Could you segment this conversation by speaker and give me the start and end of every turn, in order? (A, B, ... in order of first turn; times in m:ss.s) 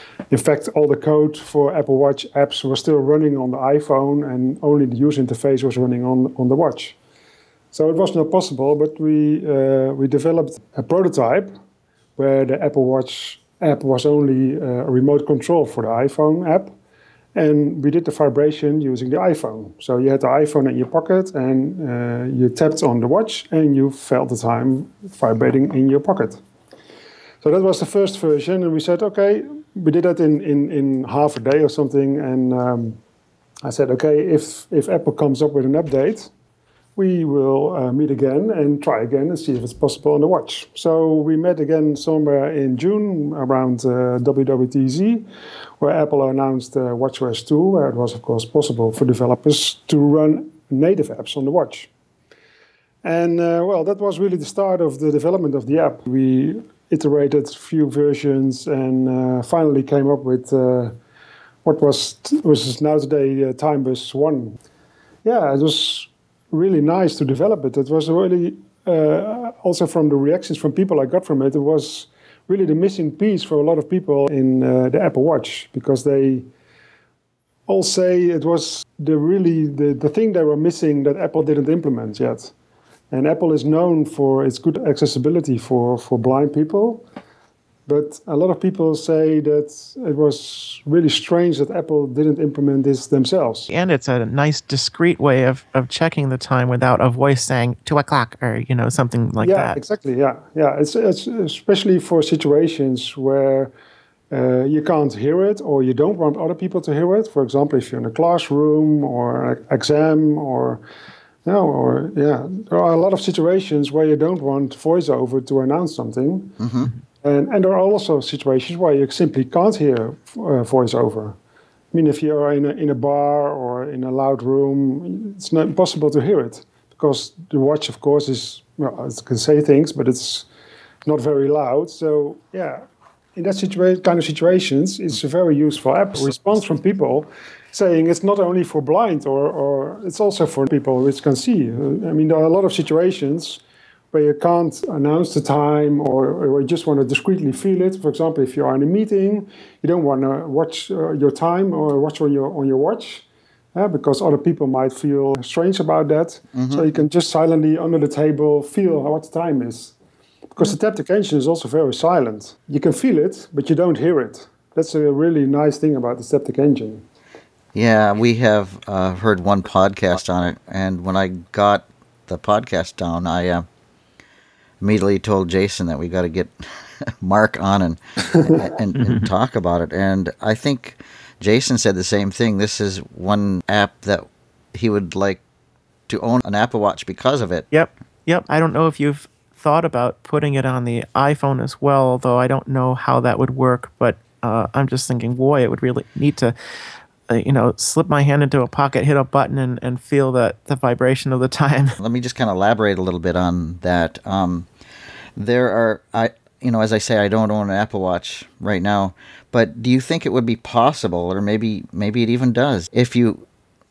0:00.3-0:07.0 A
0:07.7-0:11.6 A
0:12.2-0:16.7 A
0:17.4-0:26.4 A
0:27.4-0:33.0 A
0:33.6-0:36.3 A
0:37.0-0:45.3 A
0:45.8-0:51.9 A
0:53.0-1:01.0 A
1:01.6-1:04.6 A
1:05.2-1:16.5 A
1:17.7-1:22.5 A
1:23.1-1:27.0 A
1:27.9-1:33.7 A
1:33.7-1:39.8 B
1:39.4-1:43.7 A
1:44.3-1:50.8 A
1:51.4-1:56.6 A
1:56.6-1:56.9 C
1:57.2-2:01.4 A
2:01.9-2:10.5 A
2:11.0-2:12.8 A
2:13.4-2:23.6 A
2:24.1-2:40.0 A
2:36.5-2:36.8 C
2:40.6-2:47.0 A
2:47.7-2:53.7 C
2:54.8-3:05.4 C
2:59.0-2:59.3 B
3:06.1-3:07.7 C
3:07.7-3:16.6 B
3:17.3-3:22.0 B
3:22.0-3:24.7 C
3:25.4-3:33.5 C